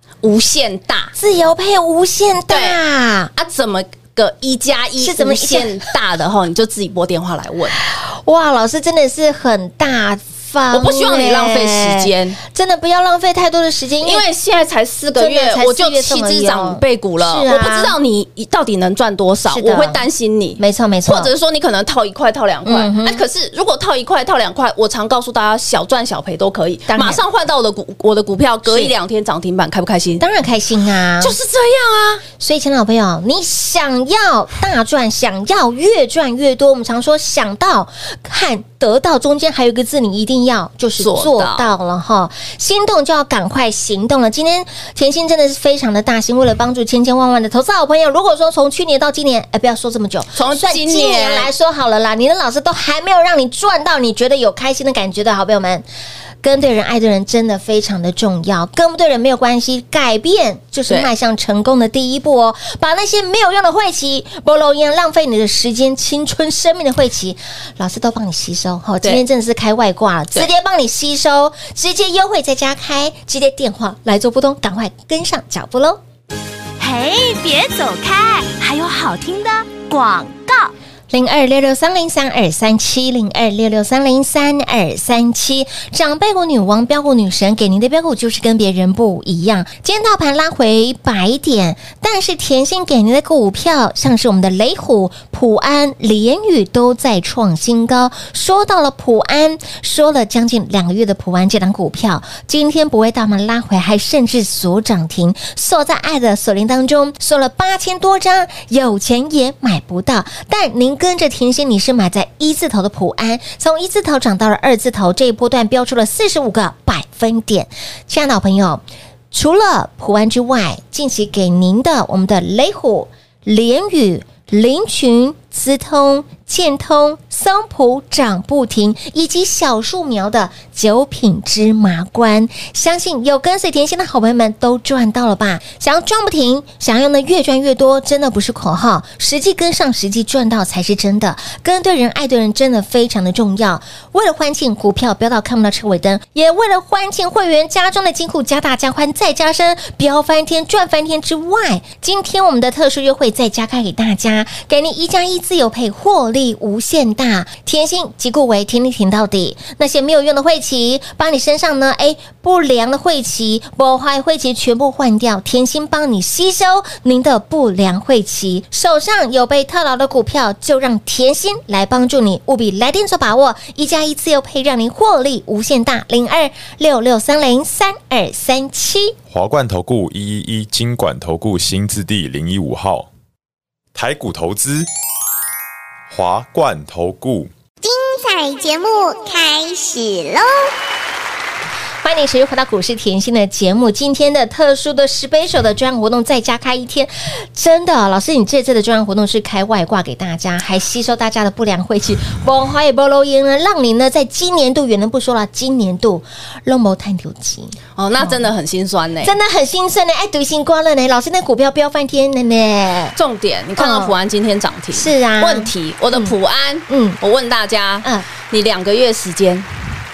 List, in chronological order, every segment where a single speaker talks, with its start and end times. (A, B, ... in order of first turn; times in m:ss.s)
0:00.2-0:01.1 A
0:01.2-0:03.3 B
0:02.5-0:02.8 A
0:03.4-0:07.8 A
0:05.0-0:05.8 B
0:07.9-0:14.2 B
0:10.7-0:12.4 A
0:14.0-0:30.2 A
0:15.2-0:18.0 B
0:19.5-0:20.0 B
0:20.6-0:21.3 B
0:22.7-0:23.2 B
0:26.9-0:27.2 B
0:28.7-0:28.9 B
0:30.2-0:31.4 B
0:31.2-0:32.2 A
0:32.4-0:55.9 B
0:41.0-0:41.7 A
0:50.3-0:51.5 A
0:56.4-1:16.0 B
1:16.8-1:20.7 C
1:21.1-2:59.2 B
2:59.3-3:03.1 D
3:03.9-3:04.9 D
3:06.1-3:07.5 D
3:07.8-3:10.7 E
3:12.0-3:28.5 B
3:28.0-3:29.4 A
3:29.2-3:33.2 B
3:33.2-3:39.7 A
3:33.8-3:34.2 B
3:34.9-3:36.3 B
3:36.9-3:37.2 B